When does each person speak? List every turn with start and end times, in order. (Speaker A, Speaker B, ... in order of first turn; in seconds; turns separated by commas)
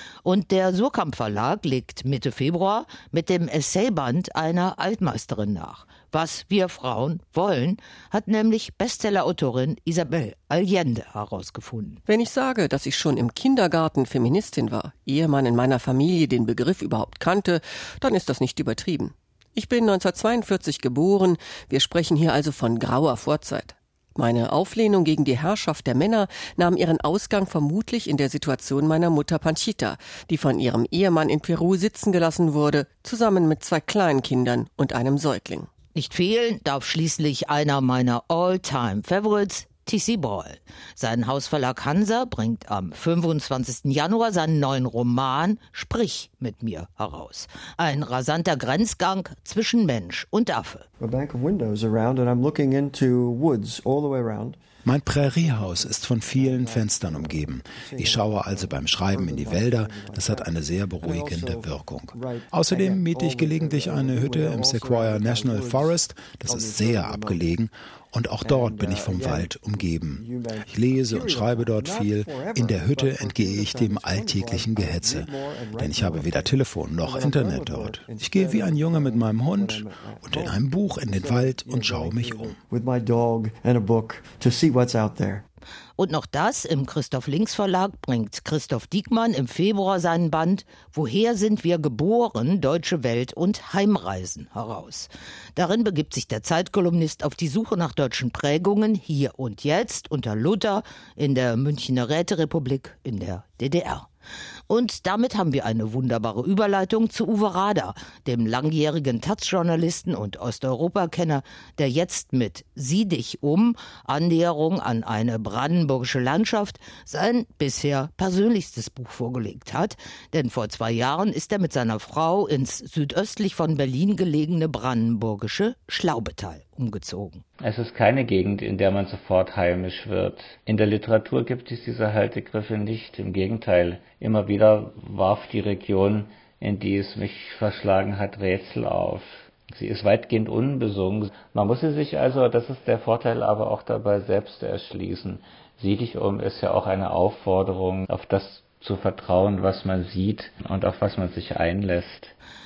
Speaker A: 0.2-12.0, Speaker B: 12.1-35.7, Speaker A: 35.9-50.9, Speaker C: 51.0-54.6, Speaker D: 54.8-82.6, Speaker C: 55.1-67.5, Speaker C: 68.4-85.4, Speaker A: 86.0-104.1, Speaker A: 104.7-127.4, Speaker E: 127.6-152.3